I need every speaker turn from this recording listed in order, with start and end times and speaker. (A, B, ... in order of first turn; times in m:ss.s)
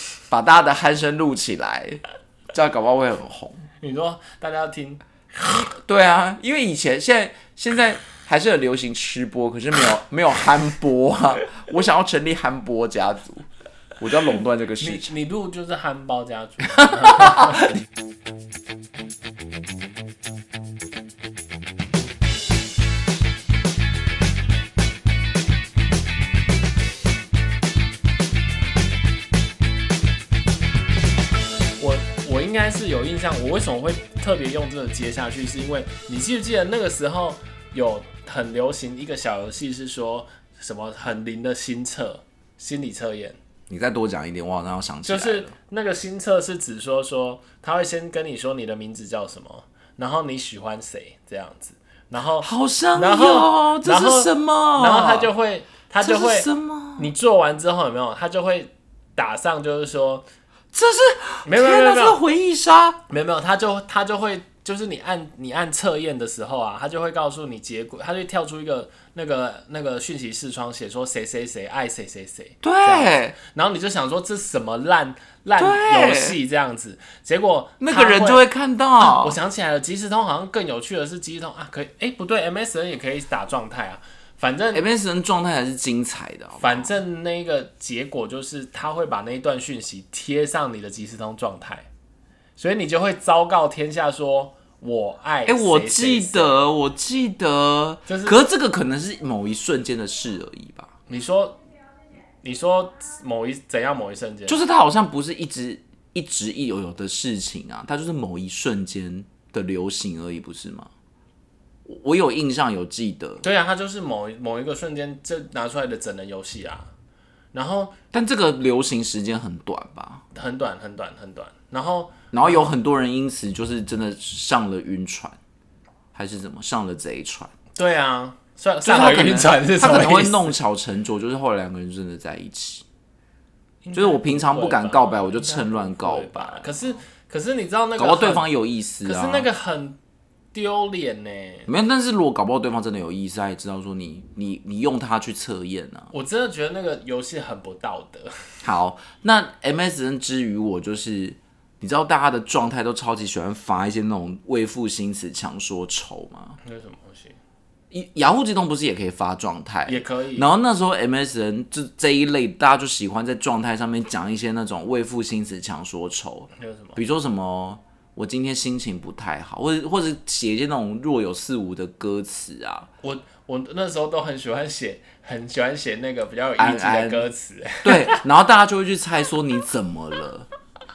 0:00.3-0:02.0 A
0:02.5-0:03.7 A
0:03.8-0:05.7 B
0:05.5-0:13.4 A
0:14.0-0:15.1 A
0:14.8-0:17.7 B
0:17.2-0:17.6 A
0:31.8-0:43.4 B
0:43.7-0:45.6 A
0:45.0-1:00.2 B
0:52.4-0:55.3 A
0:56.0-0:57.1 A
1:00.7-1:03.0 A
1:01.4-1:02.2 B
1:03.1-1:18.4 B
1:12.6-1:13.4 A
1:15.6-1:16.4 A
1:17.8-1:19.4 A
1:19.0-1:24.8 B
1:24.7-1:26.9 A
1:26.6-1:31.9 B
1:32.6-1:36.6 B
1:35.4-1:40.9 A
1:38.1-1:38.4 B
1:41.1-1:41.6 B
1:42.4-1:44.6 B
1:44.5-1:50.9 A
1:51.9-1:53.4 A
1:53.4-1:56.9 B
1:57.5-1:58.0 B
1:58.1-2:00.2 A
2:00.3-2:02.7 B
2:02.3-2:05.4 A
2:06.1-2:07.5 A
2:07.7-2:10.6 B
2:08.8-2:12.8 A
2:13.8-2:18.4 B
2:13.9-2:16.8 A
2:18.0-2:19.5 A
2:19.0-2:20.0 B
2:20.5-2:21.7 B
2:21.7-2:26.1 A
2:26.1-2:28.3 B
2:28.6-2:36.6 A
2:36.6-2:37.4 B
2:37.9-2:52.9 A
2:39.9-2:40.5 B
2:46.6-2:47.0 B
2:53.0-2:58.2 B
2:56.6-2:57.2 A
2:57.8-3:00.5 A